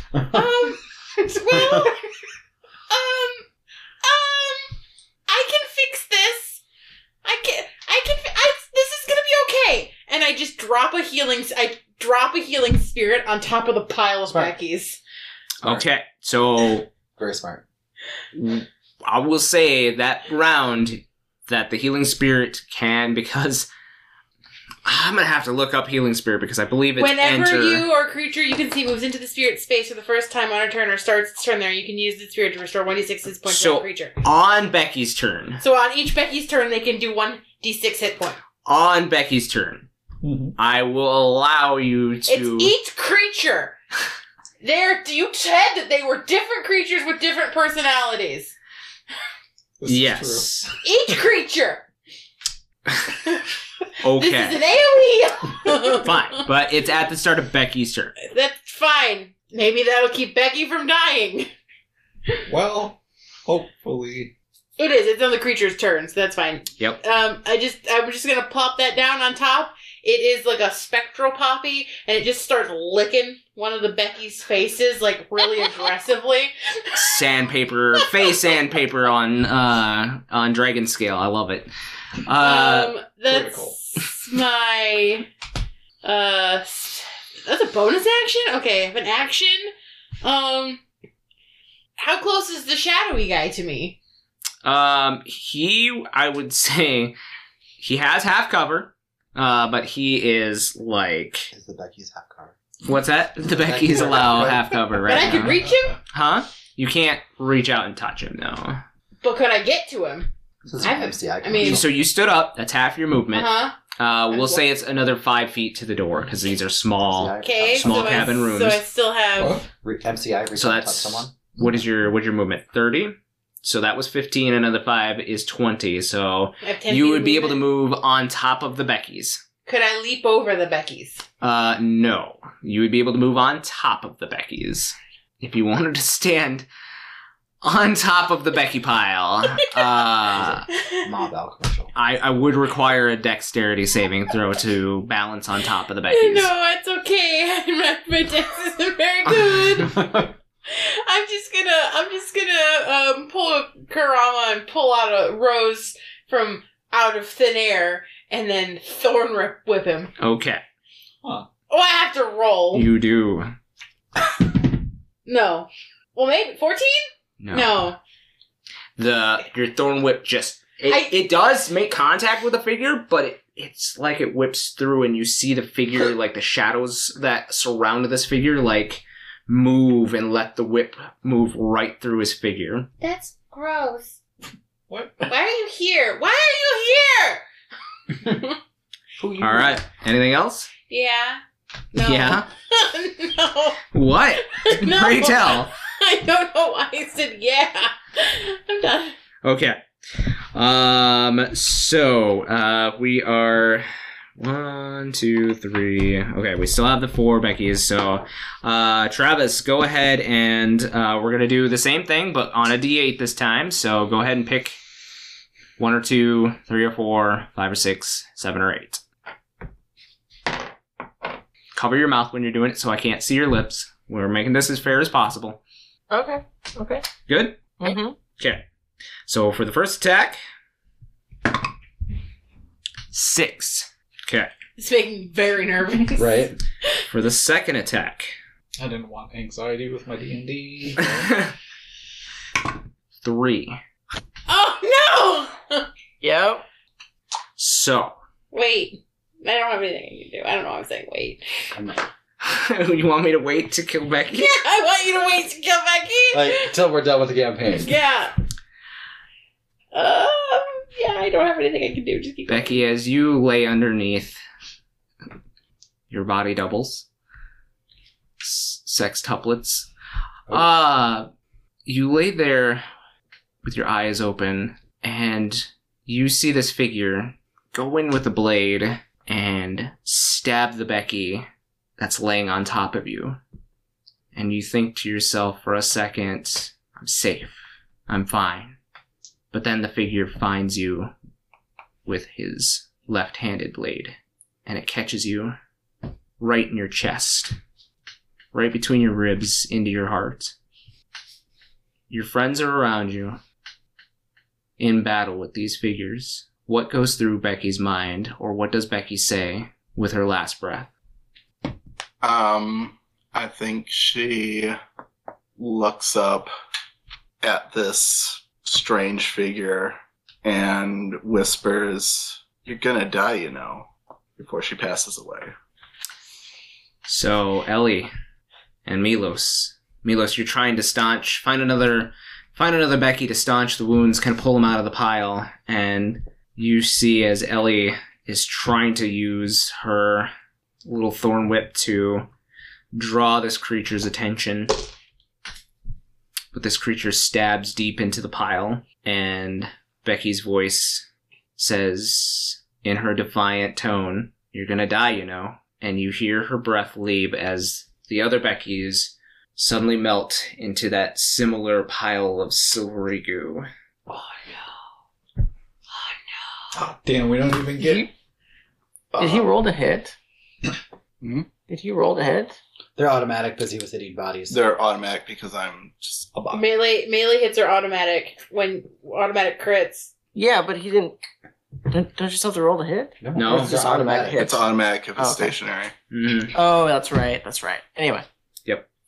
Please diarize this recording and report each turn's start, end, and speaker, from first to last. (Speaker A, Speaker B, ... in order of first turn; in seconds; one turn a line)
Speaker A: 0.3-2.0
Speaker A: 2.9-3.5
Speaker A: 4.0-4.8
Speaker A: 5.3-6.6
Speaker A: 7.2-15.0
Speaker B: 14.3-14.5
Speaker C: 15.6-16.9
Speaker B: 17.2-17.6
Speaker C: 18.3-23.7
Speaker C: 24.9-27.9
Speaker A: 27.0-34.1
Speaker C: 33.5-35.6
Speaker A: 35.6-38.4
Speaker C: 38.6-39.9
Speaker D: 40.2-40.6
Speaker C: 40.6-42.7
Speaker A: 42.3-43.8
Speaker A: 44.6-48.5
Speaker D: 49.8-50.8
Speaker C: 49.9-50.7
Speaker A: 50.8-51.9
Speaker C: 54.0-54.6
Speaker A: 54.2-56.4
Speaker C: 55.8-58.1
Speaker A: 58.2-61.5
Speaker D: 62.5-64.3
Speaker A: 64.8-77.1
Speaker C: 76.9-81.7
Speaker C: 82.2-82.9
Speaker A: 82.4-85.3
Speaker D: 83.3-83.8
Speaker A: 86.0-89.7
Speaker A: 90.2-90.8
Speaker A: 92.0-94.0
Speaker C: 94.6-97.2
Speaker C: 97.8-101.5
Speaker B: 101.5-102.6
Speaker C: 102.8-105.6
Speaker B: 103.5-104.8
Speaker A: 105.1-106.0
Speaker C: 106.1-108.8
Speaker A: 109.2-110.3
Speaker B: 110.7-111.9
Speaker A: 110.8-111.8
Speaker C: 111.6-118.8
Speaker A: 113.3-113.8
Speaker A: 114.3-114.6
Speaker B: 117.1-118.3
Speaker A: 117.4-119.6
Speaker D: 119.4-119.7
Speaker B: 119.8-121.4
Speaker C: 120.5-129.4
Speaker A: 126.6-127.6
Speaker A: 129.7-131.2
Speaker C: 131.4-136.7
Speaker C: 137.6-140.7
Speaker B: 140.3-141.9
Speaker A: 140.8-141.1
Speaker C: 141.9-146.5
Speaker A: 146.1-150.0
Speaker B: 149.8-150.3
Speaker A: 150.7-160.1
Speaker C: 160.2-160.6
Speaker A: 161.7-162.9
Speaker C: 162.7-163.5
Speaker A: 165.3-168.0
Speaker C: 167.4-167.8
Speaker C: 169.0-182.9
Speaker A: 170.9-171.2
Speaker A: 183.0-184.2
Speaker D: 184.9-185.3
Speaker A: 185.3-187.4
Speaker A: 188.2-188.5
Speaker B: 189.2-189.8
Speaker C: 189.4-190.7
Speaker A: 190.9-191.4
Speaker A: 191.9-193.8
Speaker C: 192.1-192.5
Speaker C: 193.9-195.7
Speaker A: 194.4-199.2
Speaker C: 199.4-199.8
Speaker C: 200.5-203.9
Speaker C: 204.4-214.8
Speaker C: 215.8-219.0
Speaker C: 221.7-225.6
Speaker E: 226.1-227.1
Speaker C: 227.3-227.8
Speaker E: 227.8-228.2
Speaker C: 228.3-228.6
Speaker C: 229.3-230.4
Speaker C: 233.1-234.5
Speaker A: 234.8-236.4
Speaker B: 236.2-236.6
Speaker C: 237.1-238.3
Speaker D: 238.8-241.4
Speaker C: 241.2-241.5
Speaker C: 243.2-243.8
Speaker A: 244.5-245.9
Speaker E: 246.2-246.6
Speaker C: 247.6-248.2
Speaker A: 248.5-251.4
Speaker B: 251.7-252.0
Speaker C: 252.4-254.6
Speaker A: 254.3-256.7
Speaker B: 256.3-257.9
Speaker A: 257.8-258.3
Speaker A: 259.9-262.8
Speaker C: 262.5-264.4
Speaker C: 266.1-267.1
Speaker C: 268.4-269.9
Speaker C: 270.5-271.3
Speaker C: 271.9-272.9
Speaker C: 273.6-281.5
Speaker C: 282.0-283.4
Speaker C: 284.3-288.8
Speaker C: 289.5-291.1
Speaker C: 292.1-294.1
Speaker C: 294.7-295.6
Speaker C: 296.4-297.6
Speaker C: 298.5-300.5
Speaker C: 302.1-303.4
Speaker C: 304.8-310.9
Speaker F: 312.2-314.8
Speaker F: 315.6-316.5
Speaker F: 317.4-325.5
Speaker C: 327.1-328.1
Speaker C: 328.9-340.3
Speaker C: 340.9-342.3
Speaker C: 342.9-344.9
Speaker C: 346.5-351.1
Speaker C: 351.6-363.7
Speaker D: 366.7-368.1
Speaker E: 367.8-368.1
Speaker E: 369.2-370.1
Speaker E: 371.7-372.6
Speaker B: 373.0-374.6
Speaker F: 374.5-376.4
Speaker D: 376.4-376.6
Speaker A: 376.5-380.1
Speaker E: 380.4-381.2
Speaker E: 381.9-384.6
Speaker B: 383.2-384.6
Speaker C: 383.4-383.8
Speaker F: 384.4-385.9
Speaker E: 385.2-385.5
Speaker C: 386.1-386.5
Speaker E: 386.5-388.3